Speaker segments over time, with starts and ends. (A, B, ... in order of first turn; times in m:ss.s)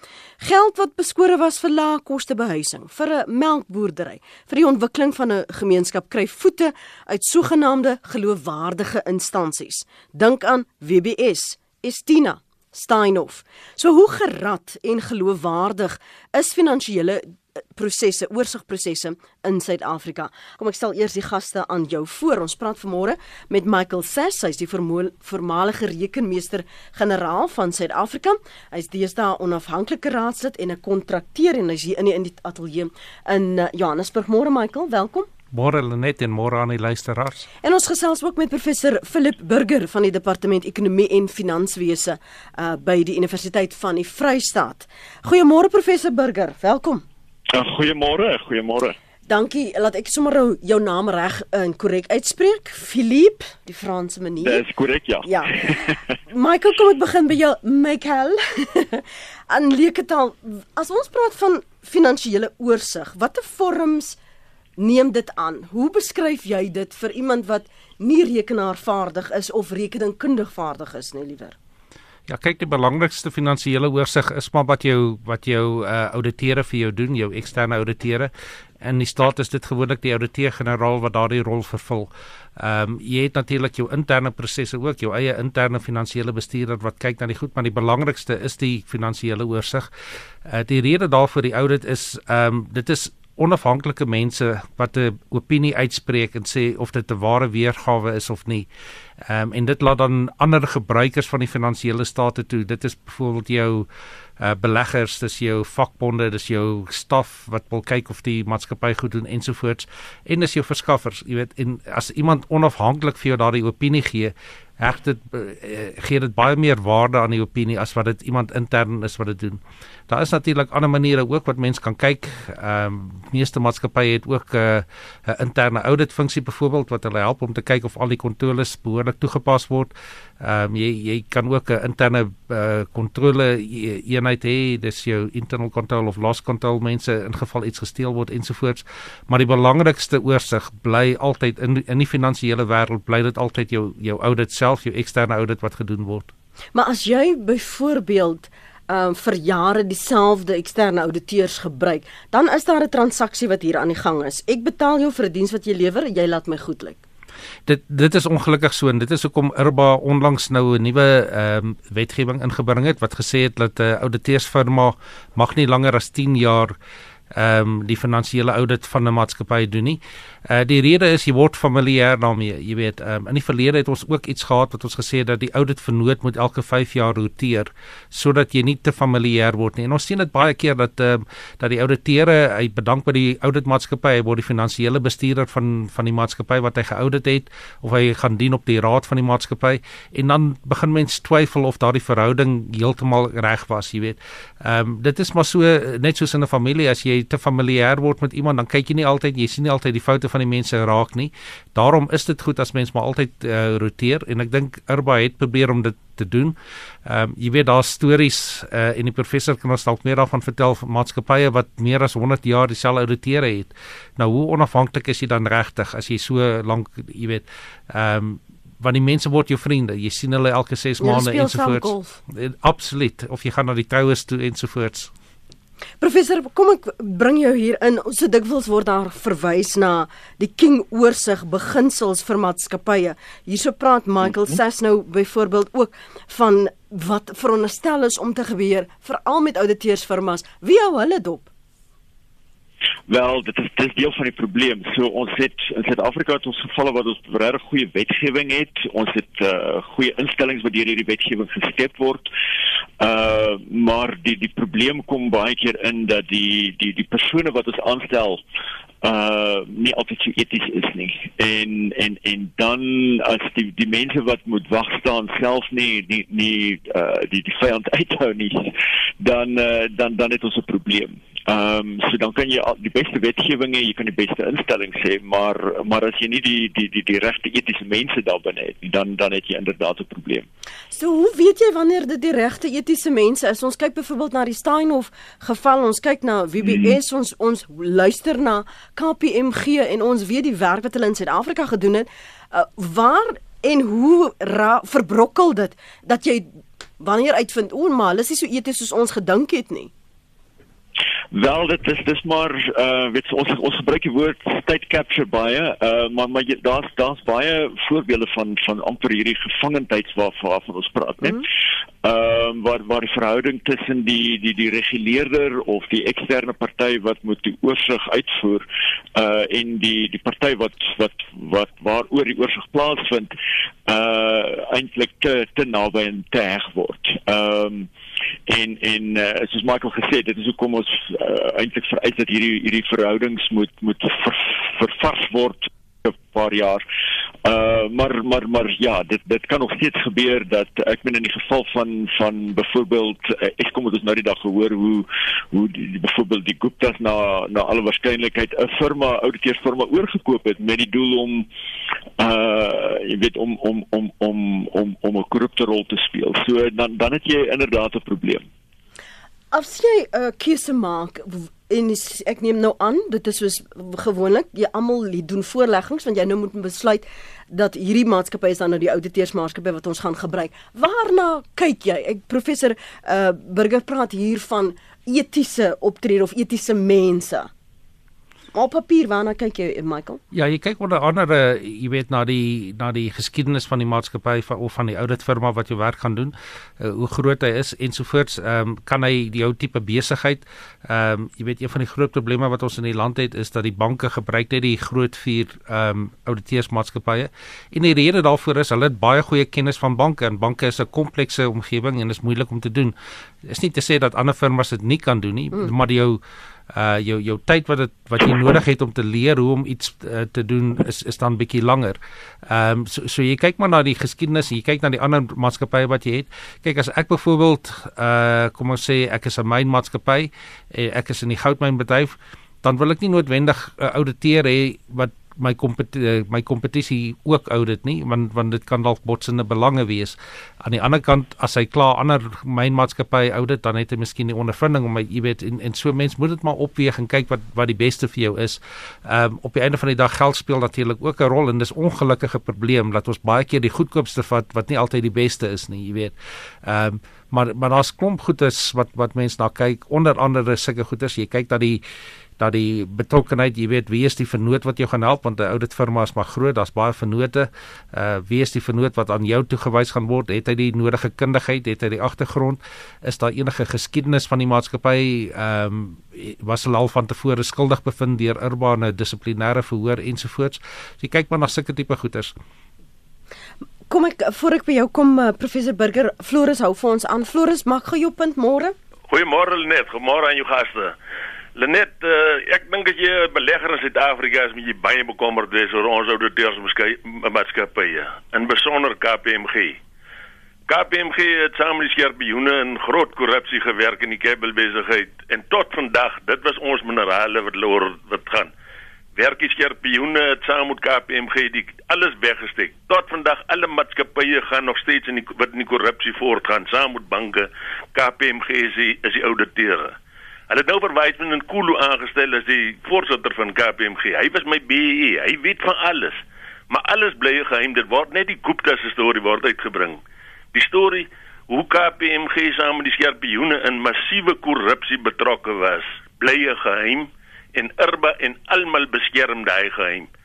0:00.4-0:35.3 A
0:35.5-0:37.5 B
0:37.6-0:47.0 A
0:47.5-0:49.0 C
0:49.3-0:54.6 A
0:54.4-0:56.0 C
0:55.2-1:04.2 A
1:04.8-1:11.6 A
1:12.3-1:29.9 B
1:30.5-1:38.7 B
1:39.2-1:43.9 B
1:44.4-2:26.3 B
2:26.8-2:37.0 A
2:37.7-2:46.8 B
2:47.3-3:45.1 B
3:41.0-3:42.2 A
3:46.0-4:01.5 A
4:03.1-4:12.3 C
4:13.0-4:18.4 C
4:19.0-4:40.5 C
4:40.9-4:56.5 A
4:46.6-4:47.0 C
4:57.0-4:59.9 A
5:01.3-5:11.5 C
5:12.0-5:18.6 C
5:19.2-5:23.3 C
5:23.9-5:27.9 C
5:28.5-5:36.8 C
5:37.4-5:51.5 C
5:52.2-5:58.4 C
5:59.5-6:17.5 A
6:18.5-6:20.2 A
6:20.3-7:31.8 B
7:32.4-7:52.3 B
7:53.9-7:58.8 A
7:59.1-8:01.0 D
8:01.6-8:09.8 D
8:10.7-8:18.5 D
8:19.2-8:30.0 D
8:30.5-8:40.0 D
8:40.5-8:50.1 D